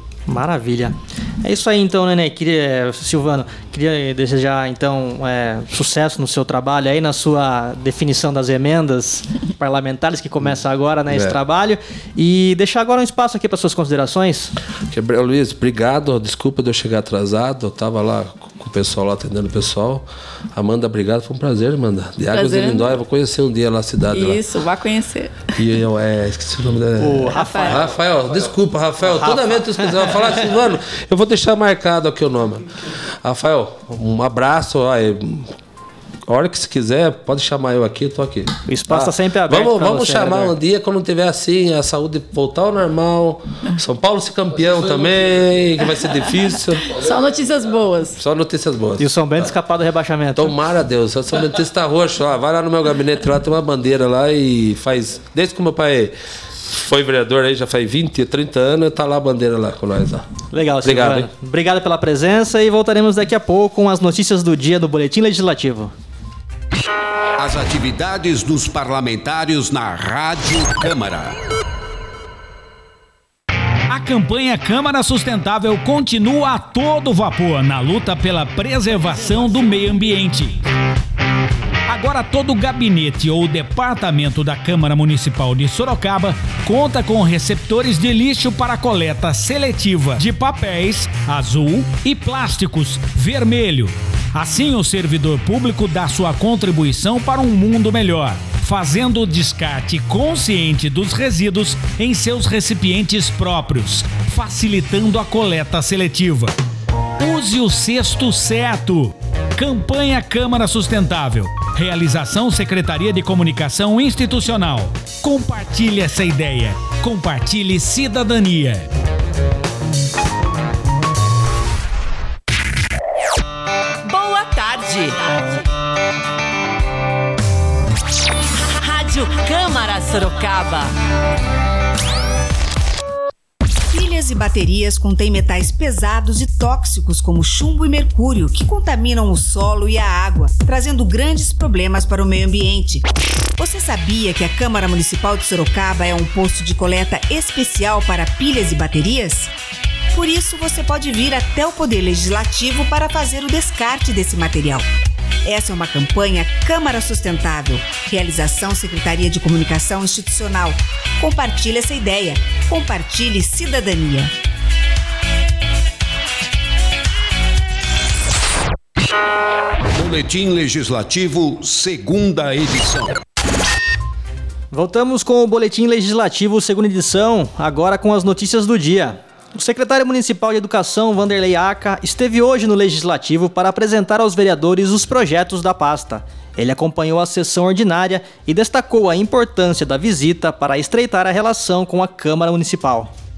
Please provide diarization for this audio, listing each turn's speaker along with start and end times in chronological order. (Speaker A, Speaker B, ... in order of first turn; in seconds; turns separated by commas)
Speaker A: 0.3-14.5, Speaker B: 11.1-11.4, Speaker B: 14.9-24.4, Speaker C: 22.3-22.9, Speaker C: 24.1-25.5, Speaker B: 25.6-32.7, Speaker A: 27.0-27.9, Speaker C: 27.3-27.8, Speaker A: 29.1-30.1, Speaker B: 33.2-35.5, Speaker B: 36.3-46.9, Speaker A: 38.7-40.5, Speaker C: 46.9-48.2, Speaker B: 48.2-49.5, Speaker A: 49.0-50.5, Speaker B: 50.4-56.1, Speaker B: 56.7-60.3, Speaker A: 60.5-65.9, Speaker B: 60.8-61.3, Speaker D: 67.4-71.4, Speaker E: 73.9-80.6, Speaker E: 81.9-106.5, Speaker E: 107.2-118.9, Speaker F: 124.0-125.4, Speaker F: 128.8-130.9, Speaker G: 133.9-149.5, Speaker G: 150.1-154.8, Speaker G: 155.4-164.3, Speaker D: 169.9-173.2, Speaker A: 174.7-193.1